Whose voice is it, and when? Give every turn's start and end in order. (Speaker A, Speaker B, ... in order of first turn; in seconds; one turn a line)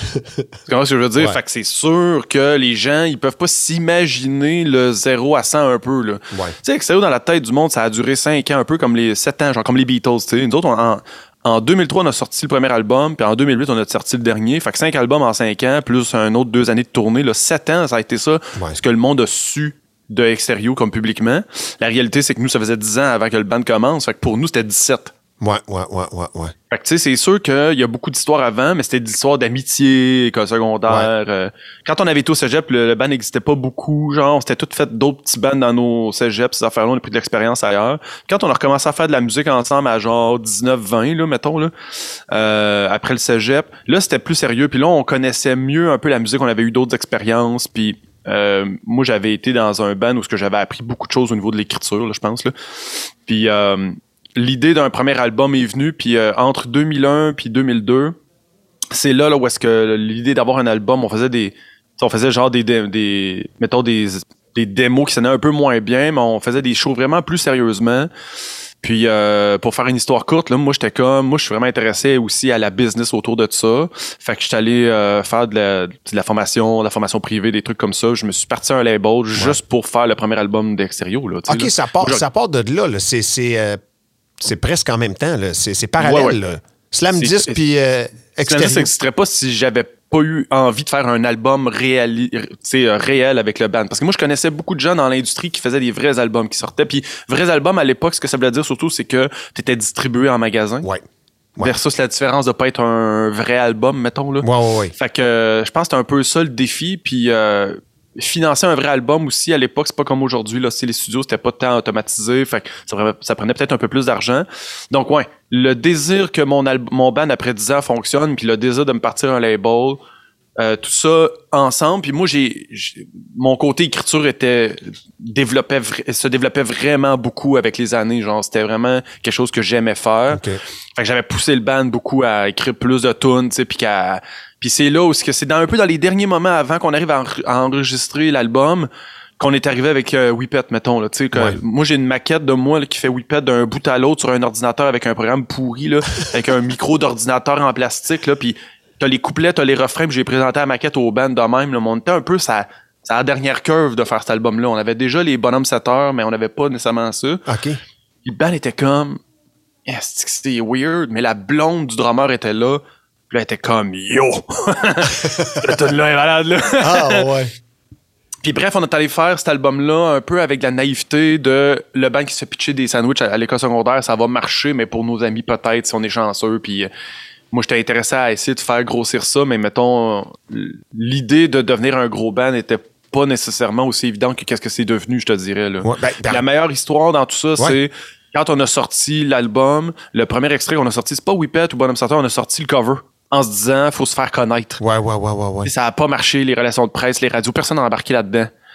Speaker A: 0.7-25.1
Speaker B: 25.4-26.5
Speaker A: 26.7-41.7
Speaker A: 42.3-52.5
Speaker A: 53.2-58.1
Speaker A: 58.9-68.1
Speaker A: 68.8-82.2
Speaker B: 81.5-83.8
Speaker B: 84.4-88.9
Speaker A: 86.0-86.4
Speaker A: 87.2-87.6
Speaker A: 88.4-100.9
Speaker A: 101.6-120.0
Speaker B: 104.4-104.9
Speaker A: 120.6-130.4
Speaker B: 130.3-130.6
Speaker A: 130.9-157.4
Speaker B: 157.5-157.8
Speaker A: 158.2-159.2
Speaker A: 159.8-167.3
Speaker B: 166.8-167.5
Speaker A: 168.4-176.9
Speaker A: 177.5-194.8
Speaker B: 185.8-186.4
Speaker B: 194.8-195.7
Speaker A: 195.6-198.5